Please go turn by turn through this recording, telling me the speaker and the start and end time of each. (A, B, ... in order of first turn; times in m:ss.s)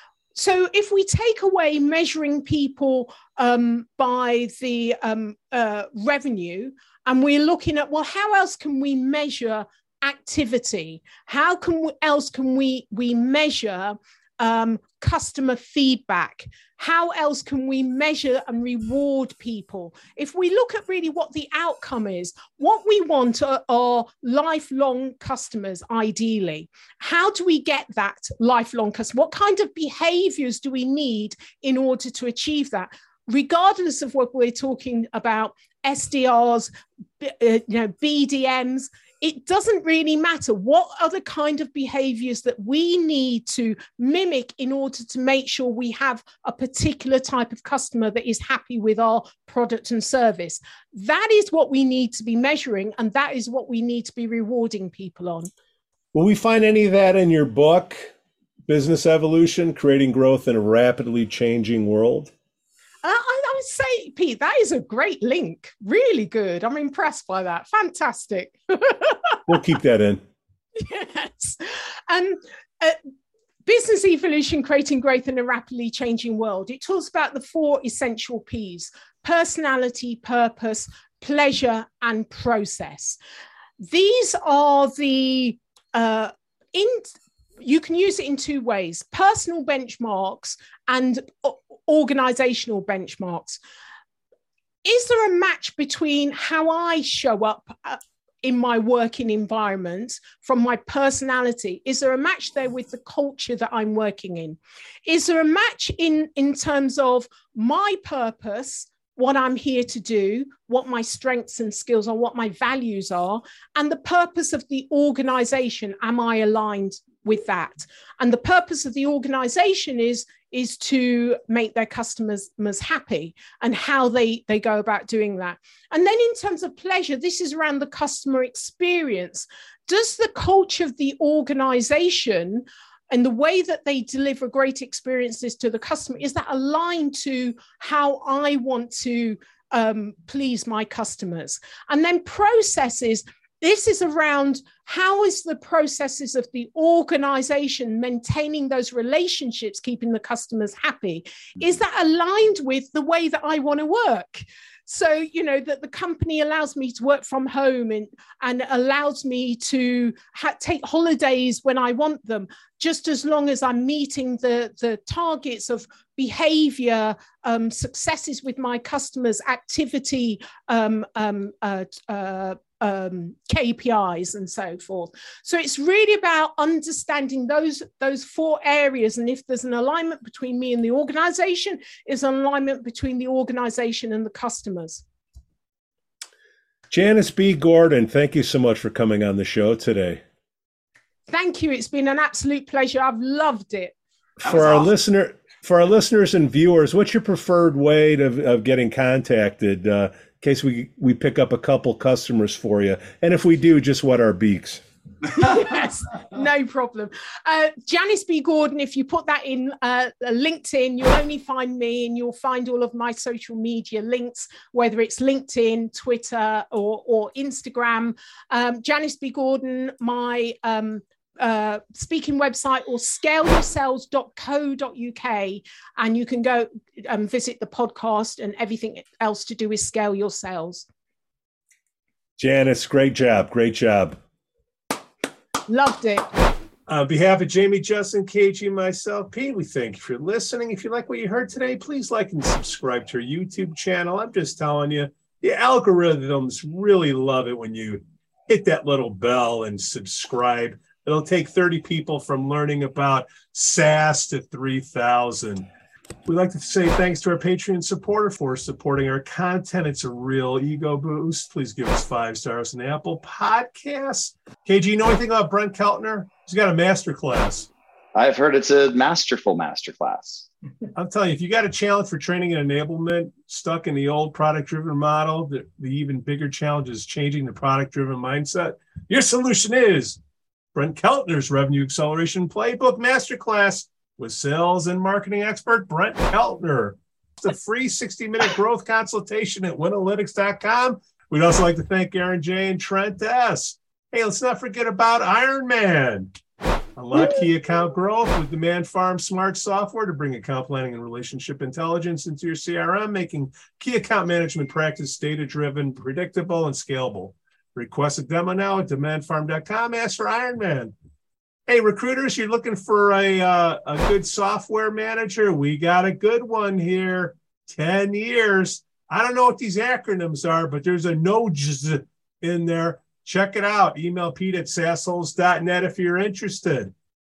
0:00.3-0:55.5 A
0:56.1-0:58.1 B
0:58.7-1:02.3 B
1:03.0-1:09.4 A
1:09.5-1:10.2 B
1:10.8-1:13.0 A
1:13.6-1:23.2 A
1:23.8-1:33.6 A
1:34.8-3:05.0 A
3:06.9-3:10.2 B
3:11.3-3:13.9 A
3:14.4-3:24.8 B
3:14.4-3:14.9 C
3:25.3-3:50.8 A
3:52.4-3:54.2 B
3:55.7-3:56.2 A
3:56.9-4:15.7 B
4:16.2-4:27.7 B
4:28.1-4:30.5 C
4:30.9-4:40.2 B
4:40.7-4:56.3 B
4:57.0-5:10.9 B
5:11.7-5:26.9 B